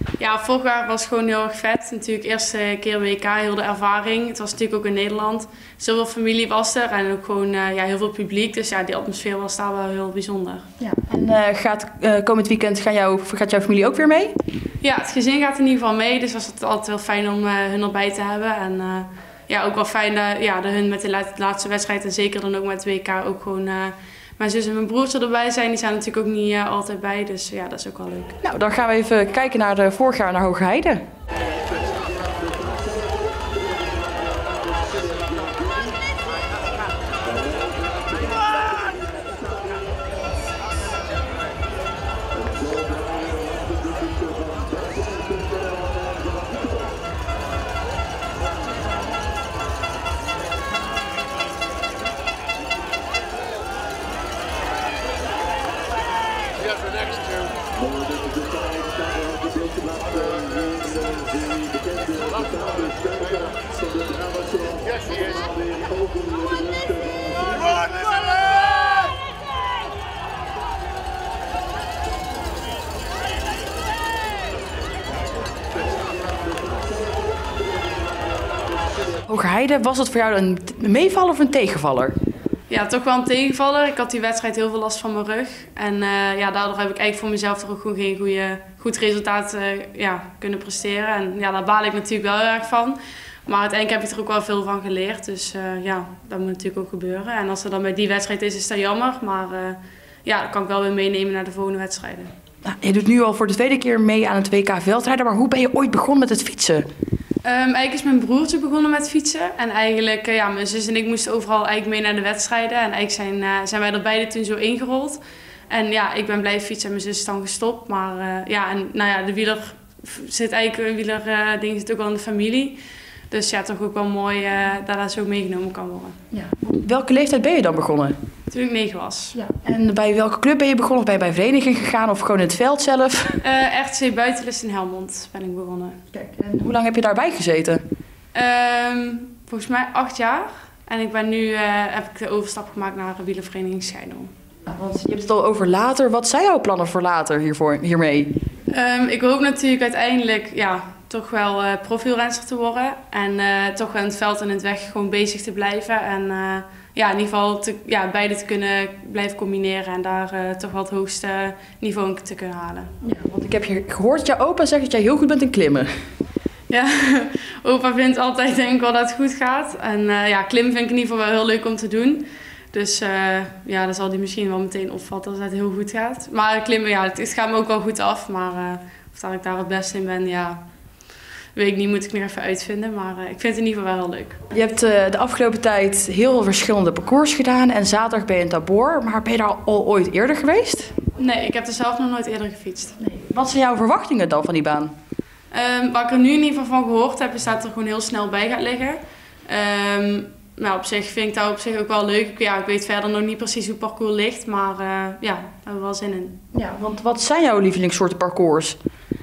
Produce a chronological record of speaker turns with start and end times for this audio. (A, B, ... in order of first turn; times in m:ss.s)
0:00.2-0:10.6 A
0:10.8-0:14.3 B
0:14.8-0:28.4 A
0:28.4-0:31.0 B
1:19.3-1:22.1 B
1:22.7-1:42.3 A
1:42.6-1:46.8 B
1:47.4-2:02.8 A
2:03.3-2:06.2 A
2:06.3-2:08.1 B
2:08.5-2:09.4 A
2:09.3-2:13.4 B
2:13.4-2:16.0 A
2:16.1-2:17.8 B
2:18.3-2:24.3 A
2:24.7-2:28.3 B
2:28.7-2:42.9 A
2:43.0-2:45.9 B
2:46.7-3:00.6 A
3:01.5-3:04.4 A
3:04.5-3:10.9 B
3:11.2-3:13.0 A
3:13.0-3:14.9 B
3:15.5-3:26.4 A
3:26.5-3:28.8 B